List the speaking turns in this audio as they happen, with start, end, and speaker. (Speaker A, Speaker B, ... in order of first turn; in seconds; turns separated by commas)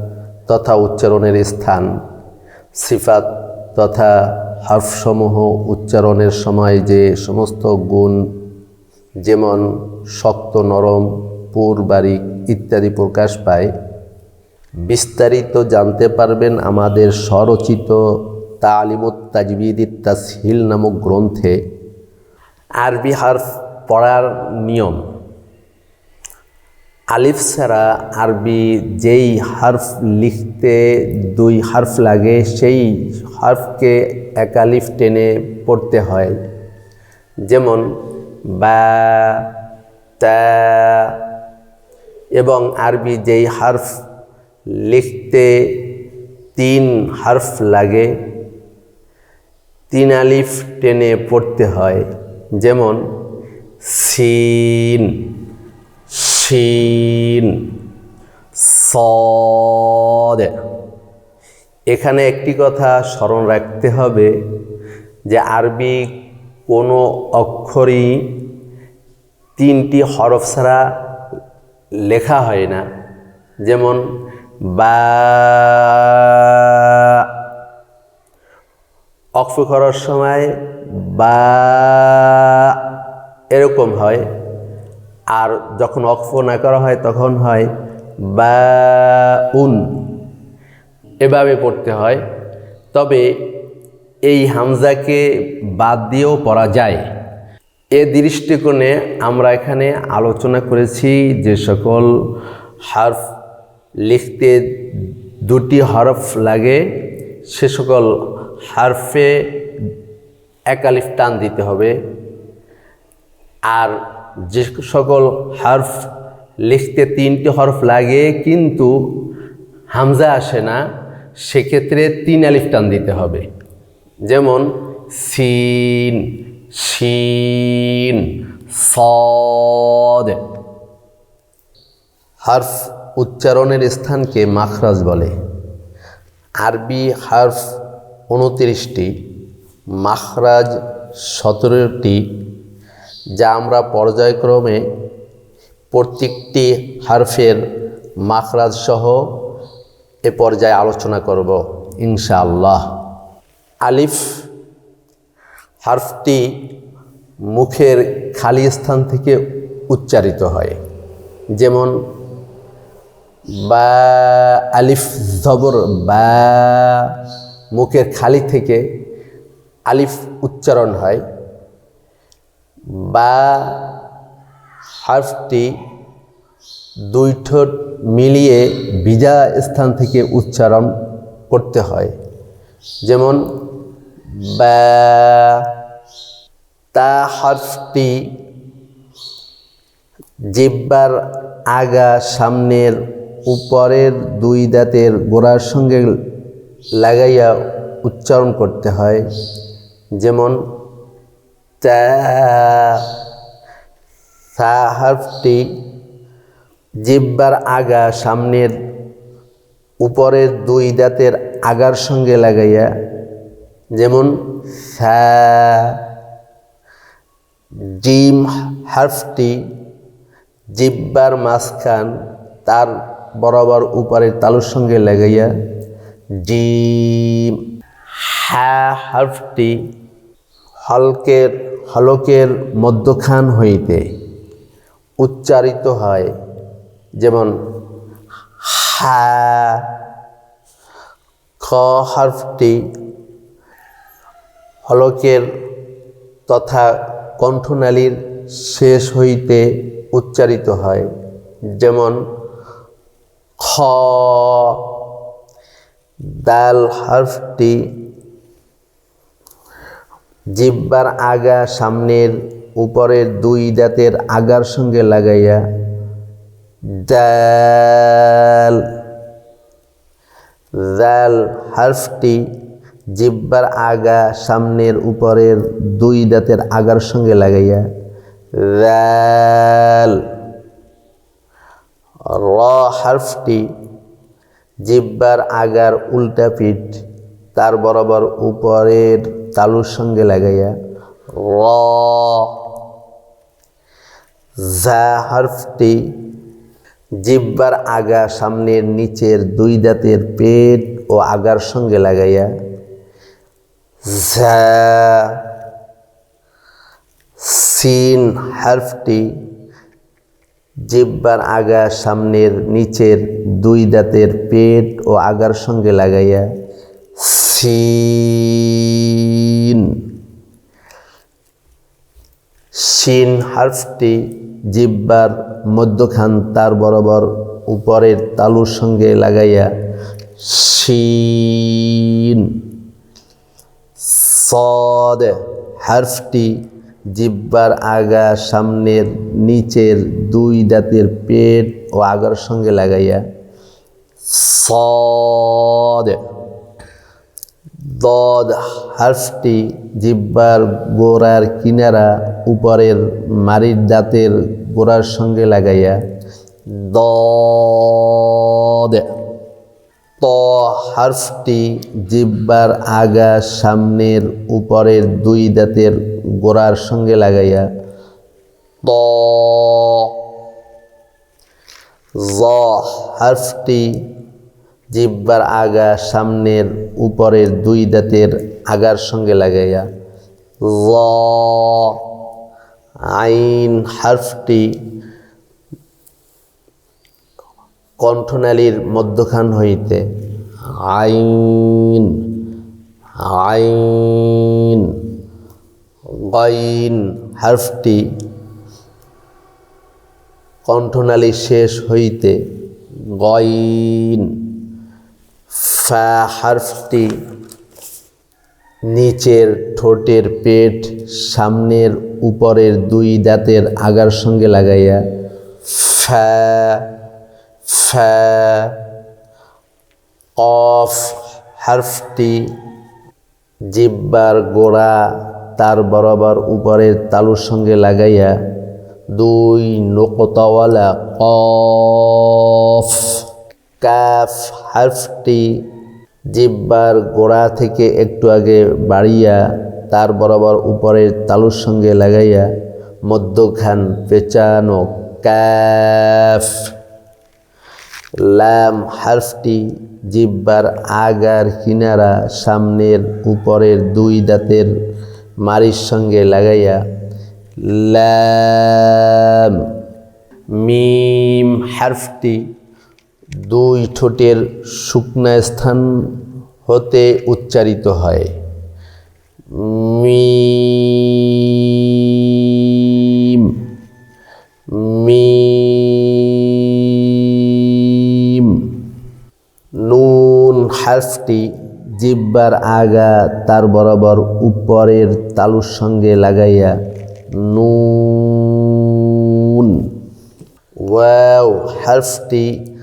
Speaker A: 0.5-1.9, Speaker A: 2.8-8.2, Speaker A: 9.2-13.7, Speaker A: 14.8-18.0, Speaker A: 18.6-21.6, Speaker A: 22.8-25.0, Speaker A: 27.1-36.4, Speaker A: 37.5-37.9, Speaker A: 38.5-39.5, Speaker A: 40.2-41.2, Speaker A: 42.4-43.8, Speaker A: 44.8-45.9, Speaker A: 46.5-48.1, Speaker A: 49.9-52.0, Speaker A: 52.6-53.0, Speaker A: 53.8-55.3, Speaker A: 56.1-57.7, Speaker A: 58.6-60.6, Speaker A: 61.9-64.3, Speaker A: 65.3-66.1, Speaker A: 66.7-68.4, Speaker A: 69.6-70.8, Speaker A: 72.1-72.8, Speaker A: 73.6-74.0, Speaker A: 74.7-77.3, Speaker A: 79.4-82.8, Speaker A: 83.5-84.2, Speaker A: 85.3-87.7, Speaker A: 88.2-90.1, Speaker A: 91.2-92.2, Speaker A: 92.9-93.4, Speaker A: 94.2-97.0, Speaker A: 97.9-102.1, Speaker A: 102.9-103.2, Speaker A: 104.0-106.8, Speaker A: 107.5-108.1, Speaker A: 108.7-109.7, Speaker A: 110.7-111.9, Speaker A: 113.7-116.1, Speaker A: 116.6-118.9, Speaker A: 119.9-120.8, Speaker A: 121.4-123.5, Speaker A: 124.2-130.4, Speaker A: 132.4-135.3, Speaker A: 136.6-137.6, Speaker A: 138.3-139.1, Speaker A: 140.0-140.7, Speaker A: 141.2-142.2, Speaker A: 143.4-144.8, Speaker A: 145.9-147.6, Speaker A: 148.2-149.2, Speaker A: 150.2-152.8, Speaker A: 153.8-154.2, Speaker A: 155.8-156.5, Speaker A: 157.5-160.8, Speaker A: 161.5-161.9, Speaker A: 163.6-167.2, Speaker A: 167.7-168.8, Speaker A: 169.9-171.2, Speaker A: 173.0-174.0, Speaker A: 175.0-175.7, Speaker A: 177.1-180.9, Speaker A: 181.5-182.1, Speaker A: 183.0-183.4, Speaker A: 184.4-185.7, Speaker A: 186.9-188.2, Speaker A: 190.5-191.2, Speaker A: 191.7-196.1, Speaker A: 197.0-199.2, Speaker A: 200.2-200.6, Speaker A: 201.8-203.2, Speaker A: 204.5-205.7, Speaker A: 207.0-208.7, Speaker A: 210.0-212.9, Speaker A: 213.9-216.0, Speaker A: 217.9-219.6, Speaker A: 220.7-222.1, Speaker A: 222.6-225.5, Speaker A: 226.4-227.6, Speaker A: 228.2-229.8, Speaker A: 230.8-234.0, Speaker A: 235.2-236.3, Speaker A: 237.2-237.5, Speaker A: 238.6-239.9, Speaker A: 241.6-242.8, Speaker A: 244.8-245.4, Speaker A: 246.5-251.1, Speaker A: 251.8-252.2, Speaker A: 253.6-255.0, Speaker A: 256.4-257.8, Speaker A: 260.5-265.6, Speaker A: 267.0-268.9, Speaker A: 270.8-272.5, Speaker A: 273.1-277.9, Speaker A: 278.6-280.3, Speaker A: 282.3-283.7, Speaker A: 284.8-287.0, Speaker A: 287.5-290.7, Speaker A: 291.3-292.6, Speaker A: 294.6-296.1, Speaker A: 297.2-302.5, Speaker A: 304.1-305.4, Speaker A: 307.4-309.3, Speaker A: 310.9-316.4, Speaker A: 317.2-320.1, Speaker A: 322.8-329.7, Speaker A: 330.4-332.6, Speaker A: 334.0-343.2, Speaker A: 344.2-346.2, Speaker A: 347.8-356.0, Speaker A: 356.7-359.1, Speaker A: 360.2-367.7, Speaker A: 368.8-370.2, Speaker A: 372.2-374.0, Speaker A: 374.9-379.9, Speaker A: 380.6-382.1, Speaker A: 383.1-384.8, Speaker A: 388.0-390.0, Speaker A: 390.8-392.4, Speaker A: 393.2-395.1, Speaker A: 396.2-398.1, Speaker A: 400.6-402.4, Speaker A: 403.1-404.6, Speaker A: 405.5-407.1, Speaker A: 408.9-415.0, Speaker A: 415.7-416.9, Speaker A: 417.7-418.8, Speaker A: 420.4-422.4, Speaker A: 423.7-425.0, Speaker A: 425.6-428.3, Speaker A: 429.1-433.2, Speaker A: 433.8-435.6, Speaker A: 436.3-442.5, Speaker A: 443.1-446.6, Speaker A: 448.2-454.7, Speaker A: 455.4-456.8, Speaker A: 457.6-459.7, Speaker A: 460.6-462.4, Speaker A: 463.4-468.3, Speaker A: 469.5-473.6, Speaker A: 474.7-478.8, Speaker A: 479.8-486.8, Speaker A: 487.4-489.9, Speaker A: 490.8-492.6